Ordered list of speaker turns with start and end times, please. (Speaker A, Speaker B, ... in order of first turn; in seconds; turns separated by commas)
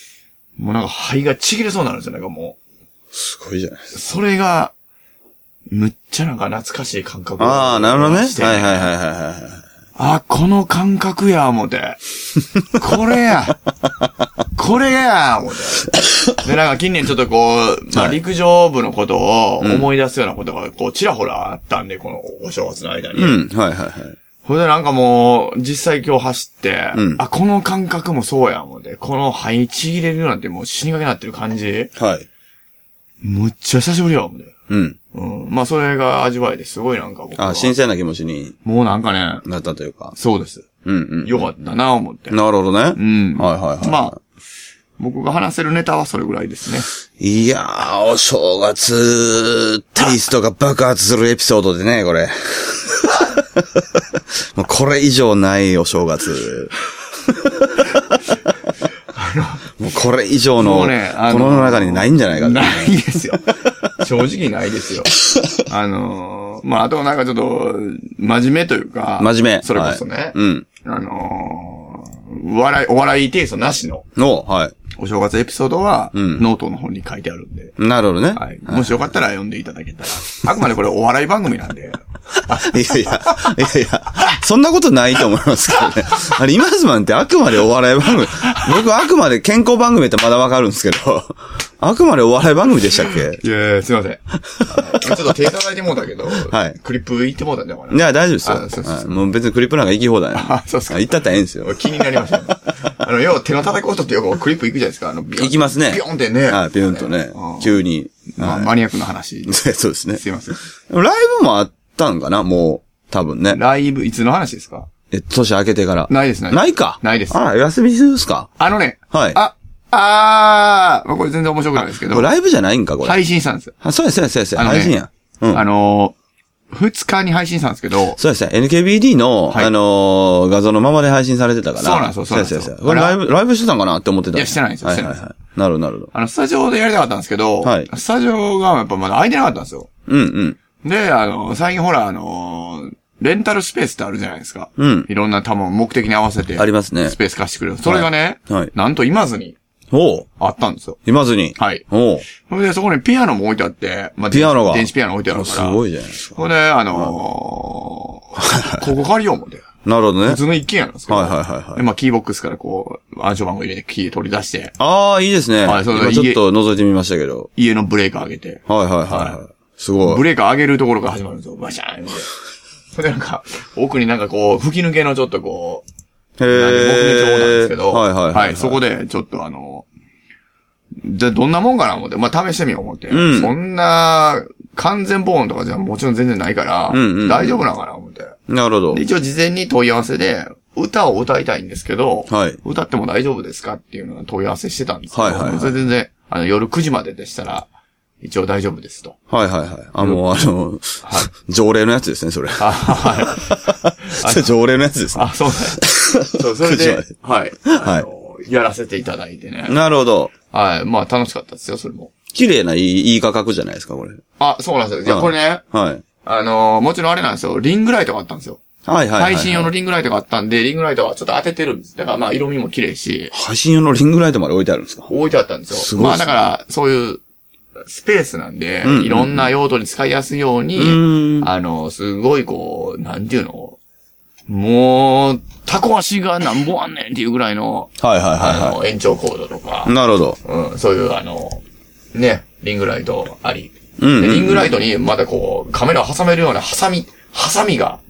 Speaker A: 0.6-2.6, Speaker B: 3.1-3.9, Speaker A: 3.9-4.7, Speaker A: 5.7-8.9, Speaker B: 7.4-9.6, Speaker A: 10.0-12.0, Speaker A: 12.7-13.6, Speaker A: 14.6-23.4, Speaker B: 17.9-18.2, Speaker B: 19.6-19.9, Speaker B: 23.2-24.2, Speaker A: 24.4-31.9, Speaker B: 26.9-27.2, Speaker B: 32.0-32.3, Speaker A: 33.2-34.5, Speaker B: 34.7-35.0, Speaker A: 35.1-37.8, Speaker B: 37.4-38.6, Speaker A: 38.6-39.5, Speaker B: 39.5-40.1, Speaker A: 40.2-40.7, Speaker B: 40.9-41.5, Speaker A: 41.2-42.4, Speaker B: 42.3-44.1, Speaker A: 43.0-44.2, Speaker A: 45.0-46.9, Speaker B: 47.2-56.7, Speaker B: 57.3-57.8, Speaker A: 59.1-59.6, Speaker B: 59.8-63.0, Speaker A: 60.6-74.1, Speaker B: 69.2-70.7, Speaker B: 74.2-74.8, Speaker A: 75.0-77.8, Speaker B: 76.1-76.5, Speaker B: 77.8-79.0, Speaker A: 78.3-83.5, Speaker B: 82.5-93.4, Speaker A: 88.3-88.8, Speaker A: 93.1-99.2, Speaker B: 94.7-95.0, Speaker B: 96.4-96.8, Speaker B: 97.9-102.3, Speaker A: 100.3-107.8, Speaker B: 105.4-108.7, Speaker A: 108.3-109.6, Speaker B: 109.5-110.2, Speaker A: 110.2-110.6, Speaker B: 110.9-113.6, Speaker A: 113.5-114.9, Speaker B: 115.1-118.5, Speaker A: 116.1-117.4, Speaker A: 118.6-122.3, Speaker B: 119.1-119.4, Speaker B: 121.8-123.2, Speaker A: 123.0-123.7, Speaker B: 123.8-125.7, Speaker A: 124.6-125.0, Speaker A: 125.5-126.2, Speaker A: 126.7-128.2, Speaker B: 128.2-136.1, Speaker A: 131.8-133.2, Speaker A: 134.3-135.2, Speaker A: 136.1-139.9, Speaker B: 137.6-137.9, Speaker B: 140.1-140.6, Speaker A: 140.8-149.6, Speaker B: 144.8-145.1, Speaker B: 146.6-147.2, Speaker B: 147.9-148.7, Speaker B: 149.9-150.3, Speaker A: 150.4-151.0, Speaker B: 151.1-152.3, Speaker A: 151.6-151.8, Speaker A: 152.4-155.8, Speaker B: 154.3-156.4, Speaker A: 156.4-159.7, Speaker B: 158.4-158.9, Speaker B: 159.8-160.4, Speaker A: 160.2-164.8, Speaker B: 161.1-161.8, Speaker B: 164.8-167.5, Speaker A: 165.6-166.4, Speaker A: 167.6-169.4, Speaker B: 168.7-170.2, Speaker A: 170.0-172.3, Speaker A: 172.9-175.8, Speaker B: 176.4-178.8, Speaker A: 176.5-179.9, Speaker A: 181.0-188.4, Speaker B: 183.1-183.5, Speaker B: 186.9-187.6, Speaker B: 188.5-189.0, Speaker A: 188.9-197.7, Speaker B: 192.3-192.6, Speaker B: 195.1-195.8, Speaker A: 198.2-199.2, Speaker B: 199.3-207.1, Speaker A: 201.0-201.3, Speaker A: 202.6-204.5, Speaker A: 205.1-209.8, Speaker B: 207.7-208.1, Speaker B: 209.7-210.3, Speaker A: 210.5-212.1, Speaker B: 212.3-214.2, Speaker A: 214.4-215.6, Speaker B: 215.1-216.0, Speaker A: 216.2-218.6, Speaker B: 218.9-219.7, Speaker A: 219.2-223.3, Speaker B: 223.3-225.1, Speaker A: 225.1-227.2, Speaker B: 225.7-226.3, Speaker A: 227.9-233.8, Speaker B: 228.8-229.5, Speaker B: 230.8-231.5, Speaker A: 234.5-241.6, Speaker B: 238.0-238.8, Speaker B: 239.9-240.4, Speaker A: 242.1-248.0, Speaker B: 244.0-244.8